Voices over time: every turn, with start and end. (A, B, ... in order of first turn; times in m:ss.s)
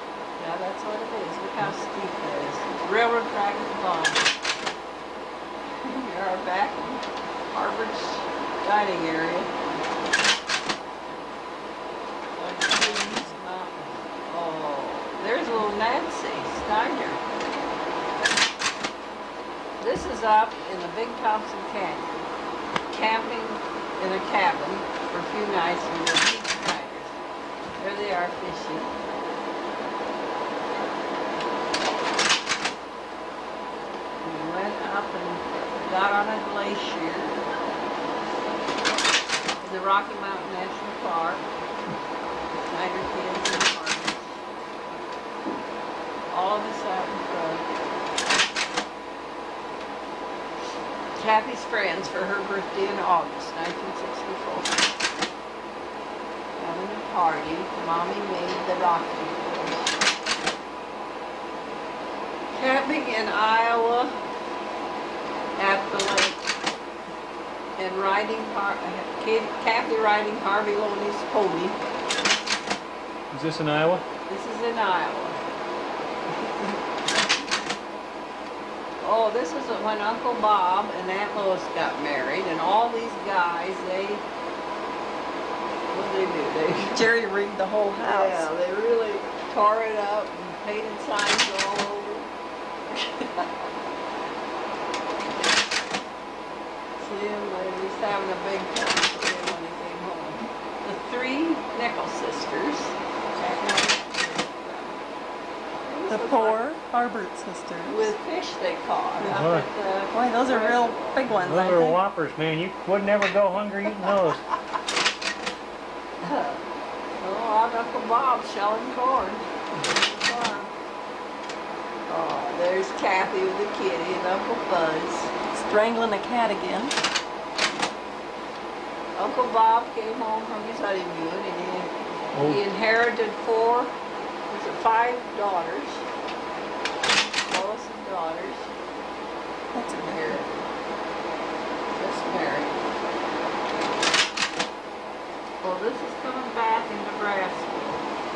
0:00.4-0:04.3 A
0:05.8-0:09.7 A
0:12.4-0:17.2 A
0:19.8-0:22.3 A
0:22.9-0:27.2 A
0:27.8-0:28.9 A
0:34.2-0:37.4 A
0:39.6-0:41.4 A
0:42.7-0:44.4 A
0:46.3-0:47.6 A
0:51.2-0:54.9 A
0:56.6-0:59.8 A
1:02.5-1:04.2 A
1:05.6-1:06.4 A
1:07.8-1:11.8 A
1:13.3-1:14.0 B
1:14.3-1:15.4 A
1:16.3-1:16.8 A
1:19.0-1:24.2 A
1:25.9-1:27.0 A
1:26.8-1:28.5 C
1:28.0-1:32.3 A
1:32.9-1:33.5 A
1:37.0-1:45.0 A
1:45.8-1:46.8 A
1:46.1-1:48.1 C
1:47.9-1:51.3 A
1:49.3-1:49.7 B
1:50.1-1:52.0 C
1:51.5-1:54.4 B
1:56.2-1:56.6 A
1:57.2-2:00.7 A
2:02.1-2:05.3 A
2:05.5-2:06.9 C
2:09.2-2:13.9 A
2:12.3-2:12.6 B
2:14.5-2:16.0 A
2:17.5-2:18.7 A
2:19.7-2:20.4 C
2:20.0-2:20.6 A
2:21.9-2:22.8 A
2:25.6-2:28.0 A